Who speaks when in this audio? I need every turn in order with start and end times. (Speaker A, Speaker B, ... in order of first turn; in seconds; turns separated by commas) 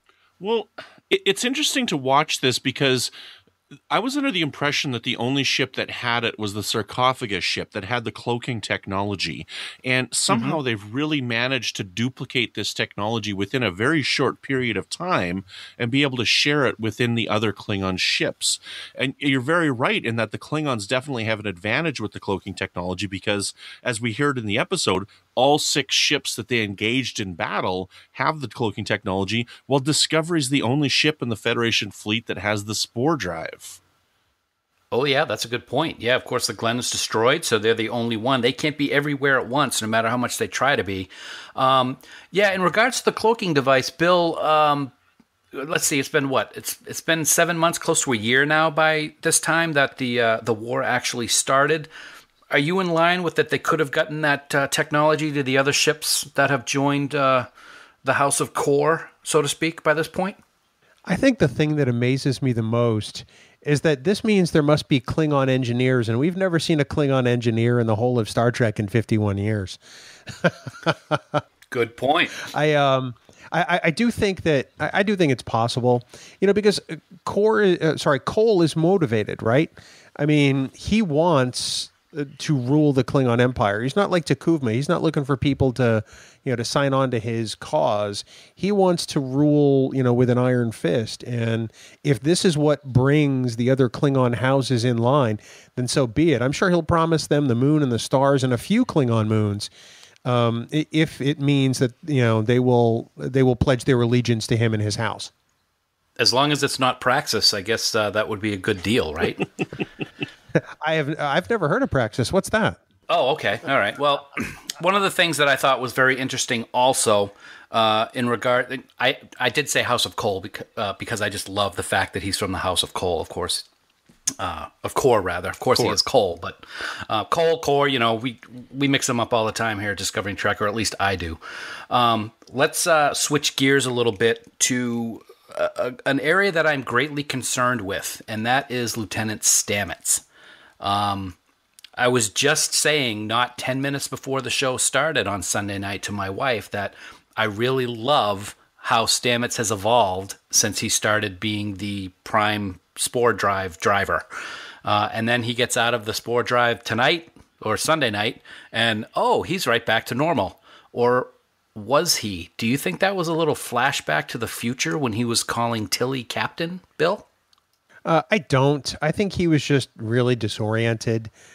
Speaker A: 0.4-3.1, Speaker A: 3.9-33.8, Speaker B: 10.3-10.6, Speaker B: 34.9-44.9, Speaker B: 45.5-51.9, Speaker B: 52.5-57.5, Speaker B: 58.0-60.4, Speaker C: 61.0-71.4, Speaker B: 71.7-72.4, Speaker C: 72.4-99.7, Speaker C: 100.2-105.3, Speaker B: 106.2-109.4, Speaker C: 110.8-112.8, Speaker B: 113.1-123.7, Speaker B: 124.4-131.4, Speaker B: 131.9-140.2, Speaker B: 140.8-141.3, Speaker B: 142.0-154.2, Speaker B: 154.8-167.2, Speaker C: 168.0-171.3